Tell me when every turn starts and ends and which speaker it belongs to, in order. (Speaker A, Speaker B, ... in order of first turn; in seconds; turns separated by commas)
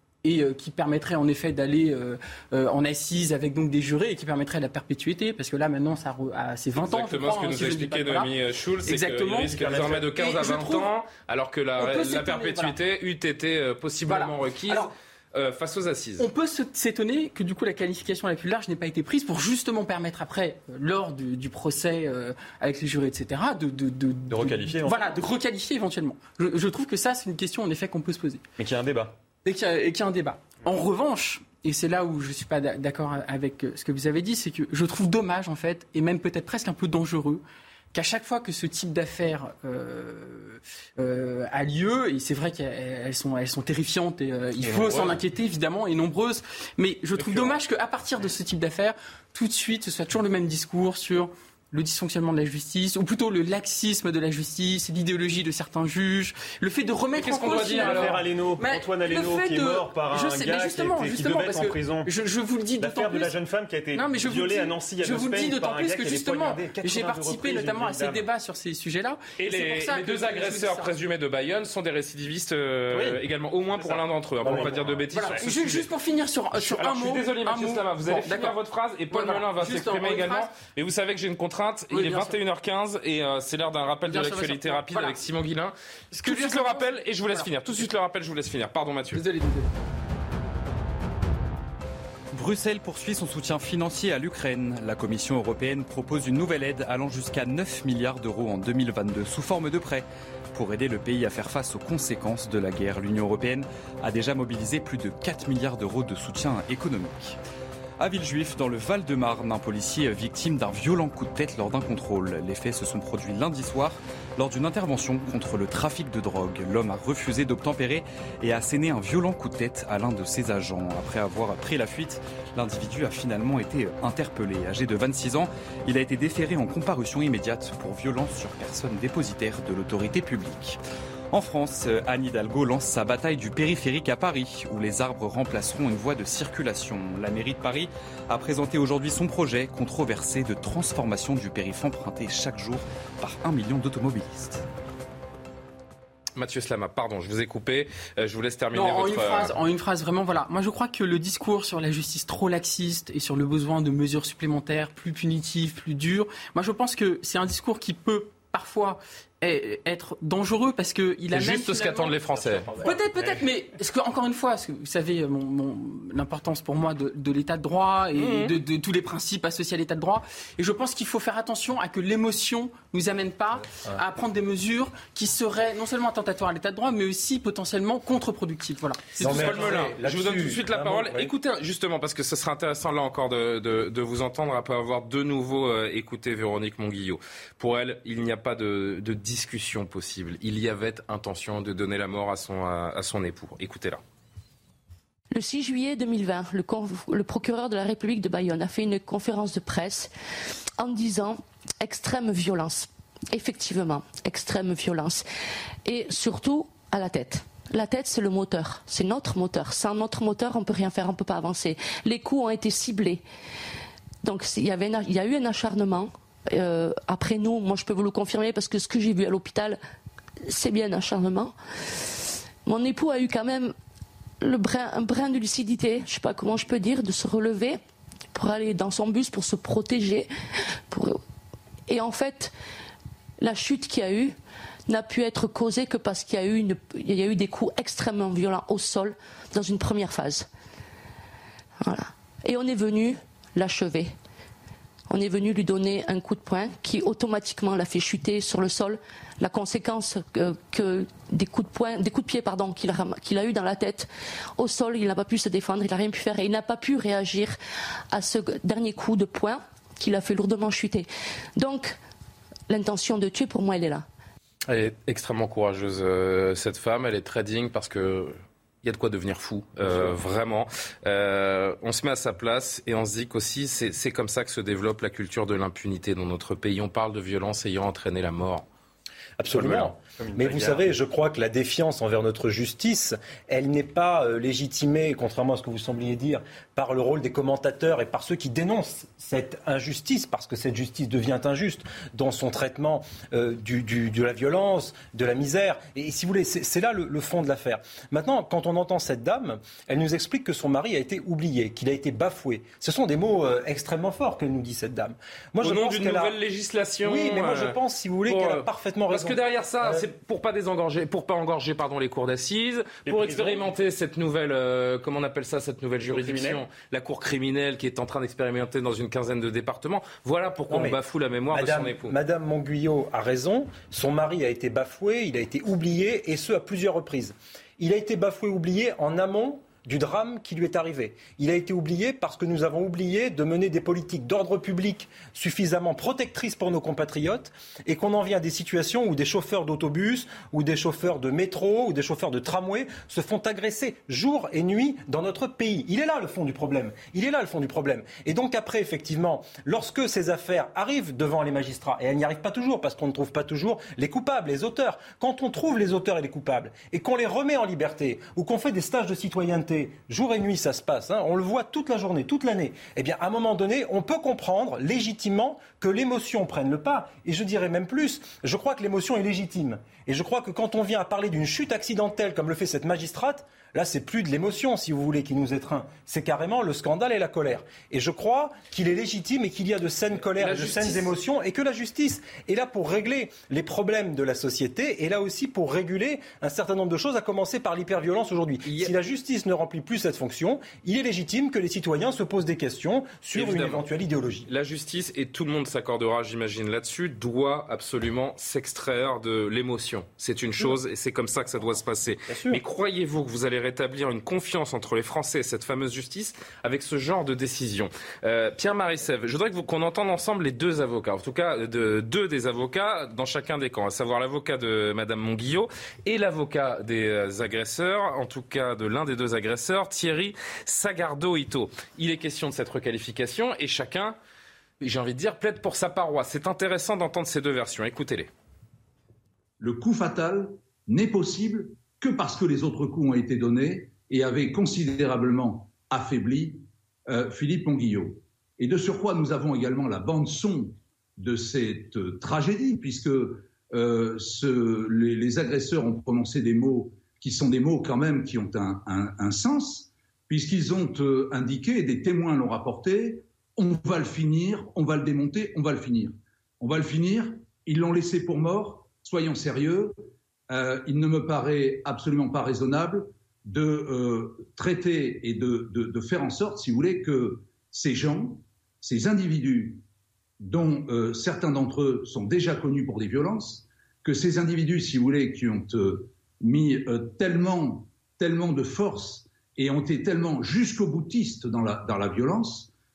Speaker A: 0.2-8.3, Speaker B: 6.8-16.3, Speaker A: 8.9-10.9, Speaker A: 11.8-12.8, Speaker A: 14.1-14.9, Speaker A: 16.2-28.4, Speaker C: 24.3-25.2, Speaker C: 28.6-29.2, Speaker A: 29.4-63.4, Speaker B: 47.2-47.5, Speaker B: 57.2-58.2, Speaker C: 57.6-62.1, Speaker C: 62.8-68.2, Speaker A: 63.9-70.9, Speaker D: 66.8-67.2, Speaker B: 69.4-75.9, Speaker C: 72.9-73.2, Speaker C: 73.7-75.5, Speaker D: 74.4-74.8, Speaker A: 75.1-78.5, Speaker B: 76.6-89.2, Speaker A: 79.1-80.5, Speaker A: 81.9-82.4, Speaker A: 84.1-85.2, Speaker A: 86.1-87.9, Speaker A: 89.1-89.7, Speaker E: 92.3-107.4, Speaker E: 108.0-130.8, Speaker E: 131.3-144.7, Speaker B: 146.4-149.5, Speaker A: 148.7-162.2, Speaker B: 161.3-162.9, Speaker A: 162.8-179.9, Speaker B: 168.2-168.5, Speaker D: 179.2-181.3, Speaker B: 179.2-194.0, Speaker F: 195.3-200.1, Speaker F: 200.8-205.2, Speaker F: 205.8-213.2, Speaker F: 214.2-219.8, Speaker F: 220.4-221.6, Speaker F: 222.7-223.7, Speaker F: 224.4-227.8, Speaker F: 228.3-230.3, Speaker F: 230.9-231.2, Speaker F: 231.9-232.5, Speaker F: 233.4-234.3, Speaker F: 234.9-240.5, Speaker F: 241.8-244.1, Speaker F: 245.1-257.6, Speaker F: 258.1-262.0, Speaker F: 262.7-264.1, Speaker B: 264.7-278.7, Speaker D: 279.4-306.4, Speaker C: 279.5-280.9, Speaker B: 305.6-307.8, Speaker D: 307.0-310.1, Speaker B: 308.3-322.1, Speaker C: 313.1-313.7, Speaker C: 316.1-316.6, Speaker D: 320.7-321.0, Speaker D: 321.5-394.5, Speaker B: 380.4-381.1, Speaker B: 388.7-388.9, Speaker B: 393.3-393.9, Speaker B: 394.5-424.2, Speaker D: 402.3-402.6, Speaker B: 424.8-428.3, Speaker G: 429.6-469.9, Speaker G: 470.4-482.7